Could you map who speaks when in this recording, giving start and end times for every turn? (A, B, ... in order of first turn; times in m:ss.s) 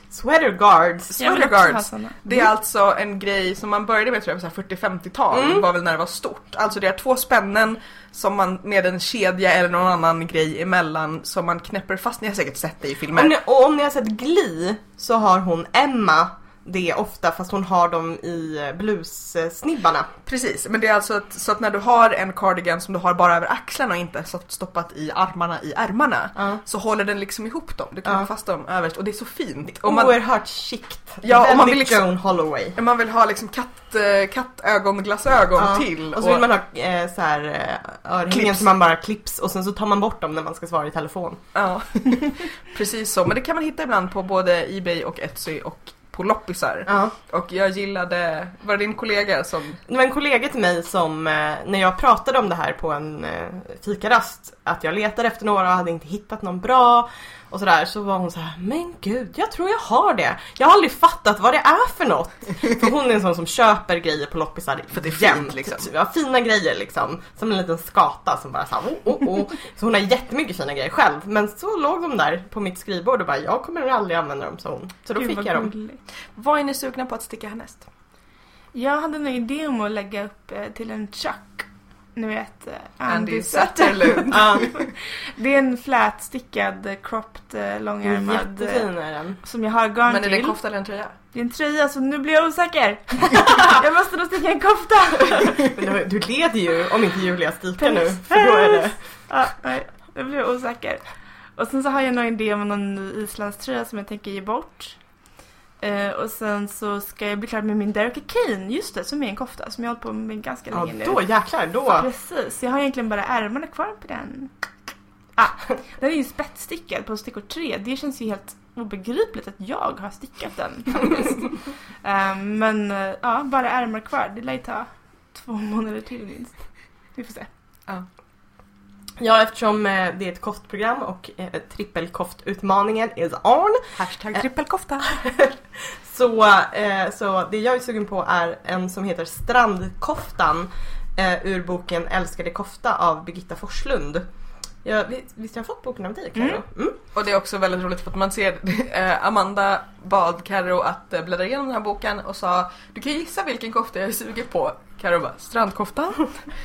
0:00.1-0:01.2 A
0:01.1-0:13.4 B
0:01.2-0:02.5 C
0:05.3-0:05.6 A
0:13.1-0:20.1 A
0:20.2-0:30.2 B
0:29.8-0:32.7 A
0:31.2-0:32.0 B
0:32.7-0:36.4 B
0:35.6-0:41.4 A
0:38.3-0:38.6 B
0:41.5-0:49.8 B
0:46.9-0:47.1 A
0:49.9-1:15.7 A
1:04.9-1:05.9 B
1:15.2-1:16.0 C
1:16.4-1:17.9 B
1:18.7-1:28.9 C
1:23.1-1:24.9 B
1:24.3-1:24.7 A
1:28.1-1:29.4 A
1:29.4-1:30.6 C
1:30.1-1:31.1 B
1:31.3-1:35.6 C
1:35.6-1:39.0 A
1:37.8-1:41.0 C
1:41.6-1:45.0 C
1:45.8-1:51.2 C
1:50.7-1:52.1 A
1:51.9-1:54.5 C
1:55.4-2:01.5 C
2:02.0-2:06.5 C
2:07.1-2:07.5 C
2:09.2-2:13.8 A
2:14.0-2:15.1 B
2:15.1-2:24.2 A
2:24.8-2:27.0 A
2:27.1-2:36.3 B